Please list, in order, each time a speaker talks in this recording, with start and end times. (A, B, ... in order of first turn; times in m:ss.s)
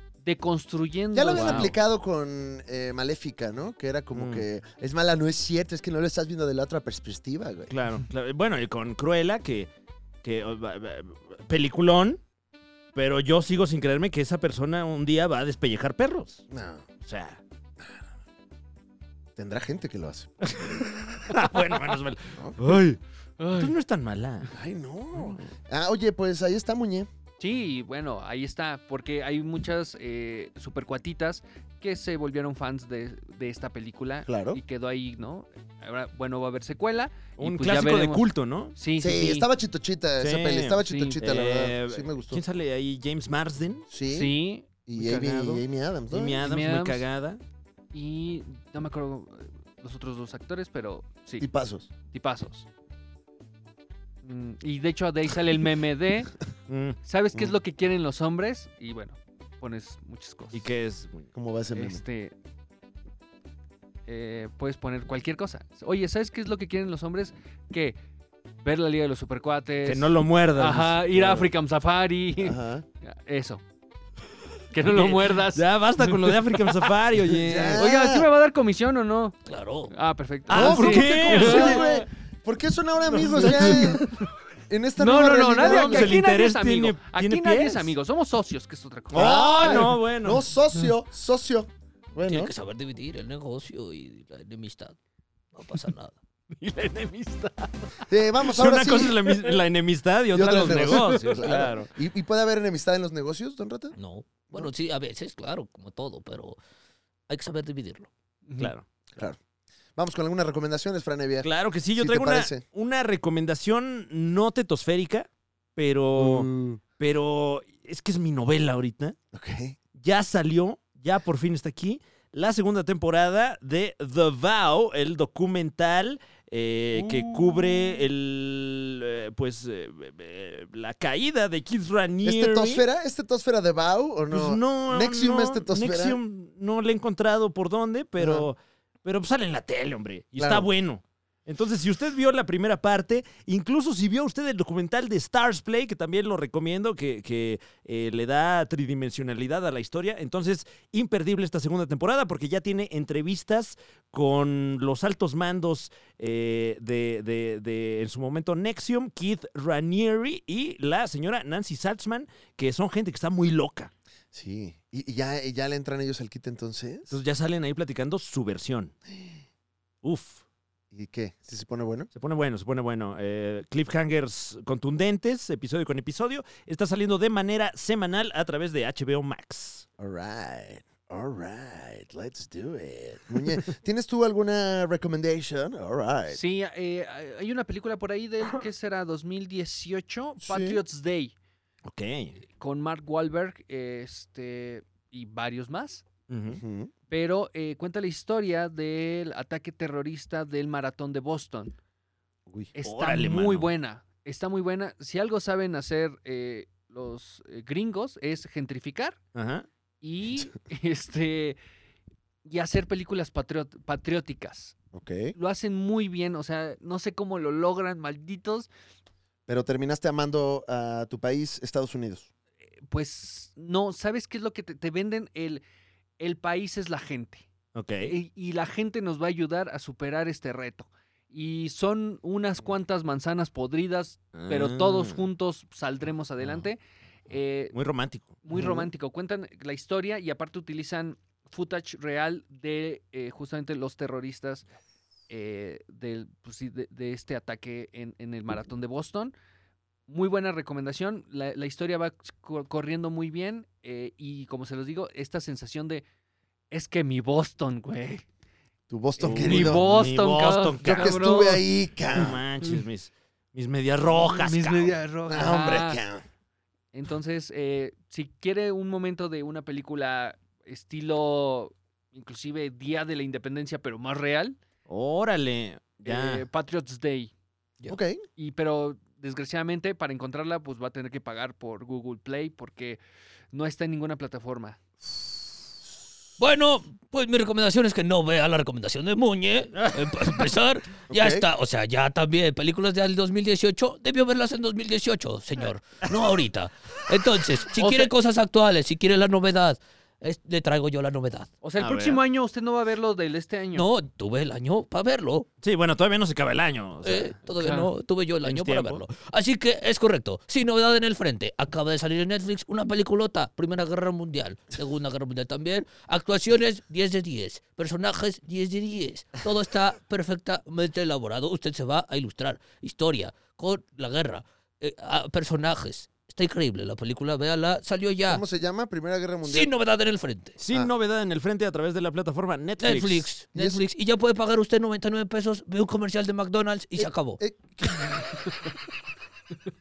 0:00.2-0:01.8 A
0:01.1-0:07.7 B
0:01.3-0:01.8 C
0:04.1-0:04.4 C
0:07.7-0:09.7 C
0:10.2-0:12.2 C
0:12.9-0:16.4 C
0:16.5-0:16.9 B
0:17.0-0:17.4 C
0:19.4-0:21.3 B
0:20.5-0:23.0 C
0:22.4-0:22.7 B
0:23.4-0:23.7 A
0:23.5-0:24.5 C
0:24.5-0:27.1 B
0:25.1-0:25.4 C
0:27.4-0:39.5 A
0:34.3-0:34.6 B
0:37.4-0:38.7 C
0:39.0-0:42.4 B
0:40.2-0:43.9 C
0:40.8-0:41.2 A
0:43.9-0:44.3 B
0:44.1-0:44.7 A
0:44.8-0:46.4 B
0:44.9-0:47.4 C
0:46.4-0:47.0 A
0:47.9-0:51.5 A
0:51.4-0:51.9 B
0:52.1-0:52.7 A
0:54.2-0:56.3 A
0:56.7-0:57.0 C
0:57.0-1:00.7 A
1:00.5-1:01.3 C
1:01.3-1:02.0 B
1:01.7-1:02.3 A
1:04.1-1:08.0 A
1:08.6-1:13.6 A
1:09.8-1:11.5 C
1:12.4-1:12.8 B
1:14.7-1:15.6 A
1:14.8-1:17.8 C
1:17.4-1:18.3 B
1:17.8-1:19.4 A
1:19.4-1:19.9 D
1:19.9-1:22.0 A
1:20.5-1:21.9 C
1:20.5-1:24.0 B
1:23.1-1:24.1 C
1:23.3-1:24.1 A
1:24.7-1:26.1 B
1:25.0-1:29.4 A
1:25.6-1:27.9 C
1:29.1-1:30.4 C
1:29.1-1:32.5 B
1:32.3-1:35.0 D
1:35.5-1:36.1 D
1:36.5-1:37.8 A
1:38.1-1:39.2 B
1:38.4-1:41.9 C
1:40.3-1:43.9 B
1:40.9-1:41.2 A
1:44.0-1:46.6 D
1:47.3-1:48.1 D
1:48.4-1:48.7 A
1:48.6-1:48.8 C
1:50.0-1:52.6 B
1:51.4-1:59.2 C
1:56.2-1:56.8 B
1:59.3-1:59.8 B
1:59.9-2:12.8 C
2:06.9-2:07.9 B
2:12.2-2:16.2 B
2:14.3-2:43.9 C
2:18.2-2:18.5 B
2:20.4-2:20.7 B
2:44.3-2:47.1 B
2:47.1-2:48.9 C
2:49.1-2:49.4 B
2:50.0-2:50.4 C
2:50.9-2:52.1 B
2:52.1-2:59.8 C
3:00.0-3:06.4 B
3:06.3-3:11.3 A
3:10.4-3:10.8 B
3:11.8-3:12.4 C
3:12.6-3:16.0 A
3:16.3-3:16.6 C
3:16.5-3:16.9 B
3:17.1-3:21.7 A
3:22.7-3:29.2 A
3:22.8-3:23.7 C
3:29.3-3:29.7 C
3:30.0-3:31.6 A
3:32.4-3:34.7 A
3:34.9-3:35.3 B
3:35.3-3:38.7 A
3:39.5-3:42.3 B
3:42.9-3:45.6 A
3:46.2-3:47.5 A
3:47.7-3:48.1 C
3:48.0-3:57.7 A
3:54.3-3:55.2 C
3:57.7-3:58.4 C
3:58.4-4:04.7 A
3:58.5-3:58.9 B
4:05.3-4:09.3 A
4:10.1-4:16.0 A
4:16.7-4:18.2 A
4:18.9-4:19.9 B
4:19.2-4:21.4 C
4:19.3-4:21.6 A
4:20.8-4:22.4 B
4:22.1-4:25.0 C
4:24.1-4:26.0 A
4:25.3-4:26.2 B
4:26.9-4:34.6 A
4:34.9-4:36.4 C
4:36.0-4:37.3 A
4:37.9-4:38.2 B
4:38.4-4:43.0 A
4:43.5-4:44.8 A
4:46.4-5:01.5 D
4:49.8-4:50.3 C
4:51.1-4:51.4 B
4:57.8-4:58.1 A
5:01.6-5:03.8 A
5:01.8-5:02.2 C
5:03.7-5:05.5 D
5:05.6-5:07.4 C
5:07.0-5:28.4 D
5:07.6-5:07.9 A
5:08.4-5:09.0 C
5:28.3-5:29.7 B
5:29.4-5:30.6 D
5:30.6-5:33.3 C
5:32.8-5:37.4 D
5:33.5-5:33.8 B
5:37.0-5:38.4 B